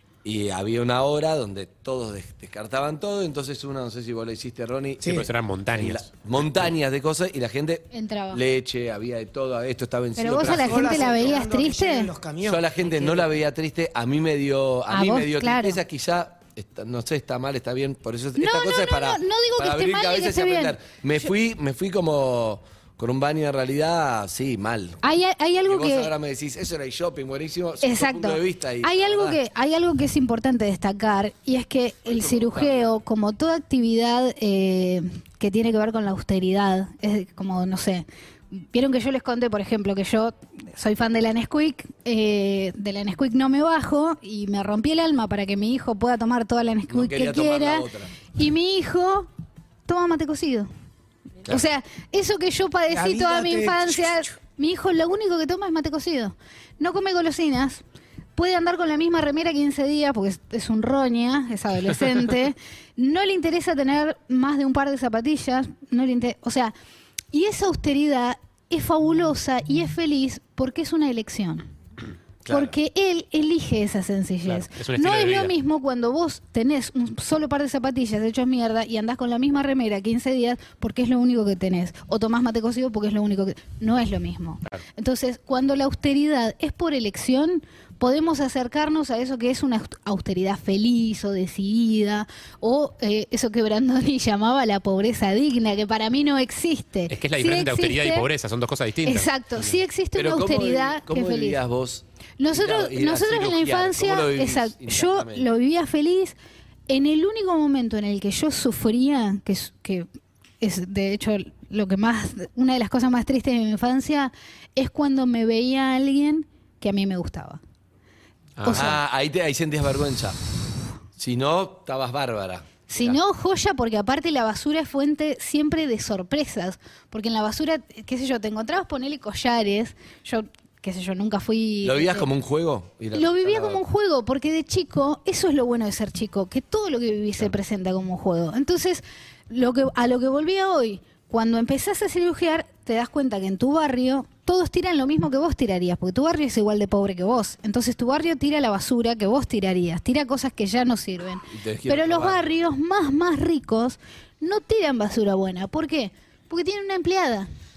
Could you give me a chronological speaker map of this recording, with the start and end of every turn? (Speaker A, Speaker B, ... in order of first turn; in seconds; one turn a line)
Speaker A: 0.2-11.3
Speaker B: 5.0-5.3
Speaker C: 5.1-6.1
Speaker D: 7.9-8.4
Speaker D: 10.2-12.1
Speaker B: 10.4-13.3
Speaker A: 12.4-25.0
Speaker D: 14.9-15.8
Speaker D: 18.4-21.3
Speaker D: 25.0-26.1
Speaker A: 25.6-29.4
Speaker D: 27.8-49.3
Speaker A: 32.1-33.0
Speaker A: 46.9-48.1
Speaker D: 49.9-50.7
Speaker D: 51.5-57.8
Speaker B: 52.9-54.3
Speaker D: 58.4-66.7
Speaker D: 67.3-71.7
Speaker A: 72.4-72.7
Speaker D: 72.5-98.3
Speaker C: 74.5-75.5
Speaker C: 97.1-99.8
Speaker D: 99.0-101.6
Speaker A: 100.1-105.5
Speaker D: 102.4-106.3
Speaker D: 106.9-110.1
Speaker D: 110.6-117.6
Speaker C: 118.6-118.9
Speaker D: 118.6-119.0
Speaker A: 118.7-120.4
Speaker A: 121.2-123.2
Speaker D: 122.9-132.3
Speaker A: 131.8-133.8
Speaker D: 133.1-157.5
Speaker A: 151.5-152.6